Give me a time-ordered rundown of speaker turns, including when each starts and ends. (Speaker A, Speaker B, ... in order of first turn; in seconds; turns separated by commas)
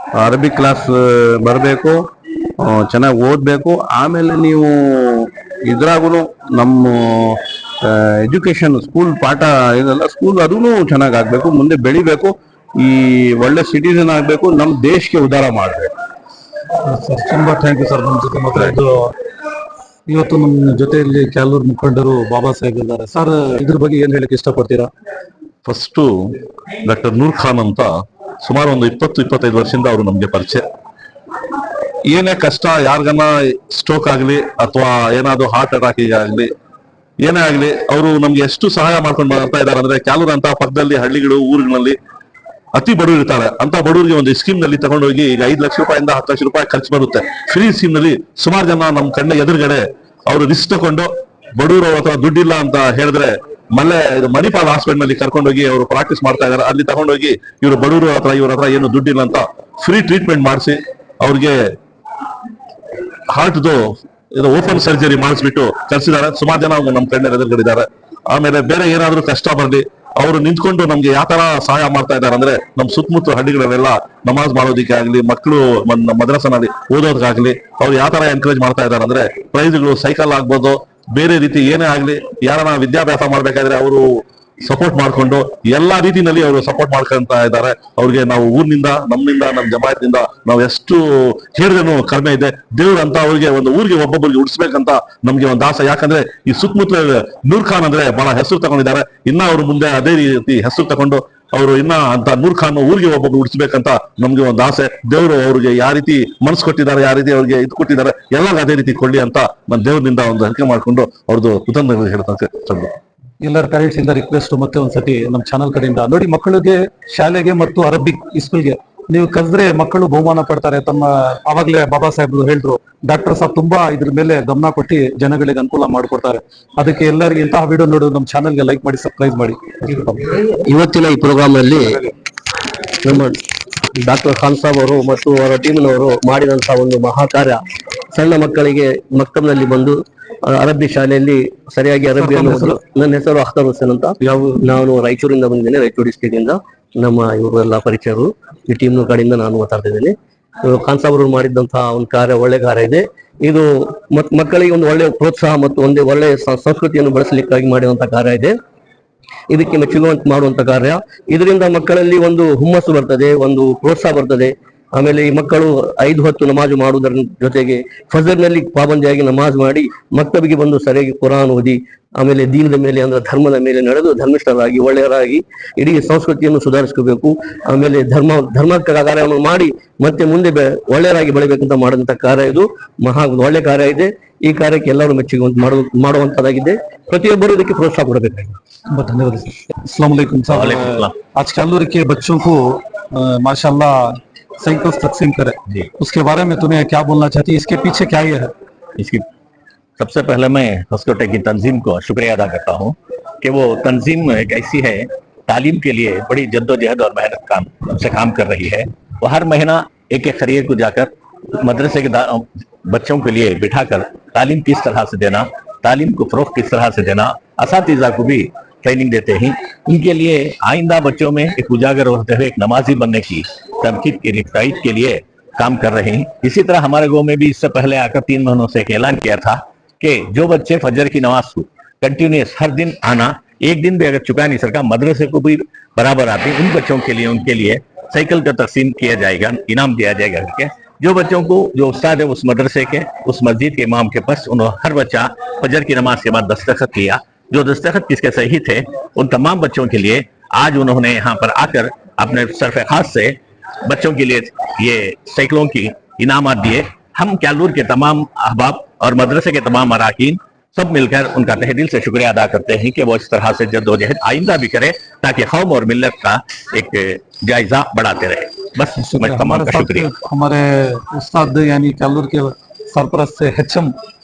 Speaker A: 0.2-1.9, Speaker A: 2.6-15.9, Speaker B: 16.9-19.0, Speaker B: 20.1-24.9, Speaker C: 25.6-26.1, Speaker C: 26.9-27.9, Speaker C: 28.4-30.6, Speaker C: 32.1-36.5, Speaker C: 37.2-41.9, Speaker C: 42.8-51.1, Speaker C: 51.6-61.5, Speaker C: 63.3-63.8, Speaker C: 64.3-84.0, Speaker C: 84.6-112.9, Speaker B: 113.4-130.2, Speaker D: 130.3-132.0, Speaker D: 133.0-133.4, Speaker D: 133.9-137.6, Speaker D: 138.1-158.6, Speaker B: 142.2-142.7, Speaker B: 144.3-144.6, Speaker D: 159.5-188.6, Speaker B: 188.9-193.9, Speaker E: 190.5-191.1, Speaker B: 194.6-198.5, Speaker E: 200.0-253.3, Speaker E: 253.9-270.1, Speaker B: 269.0-273.9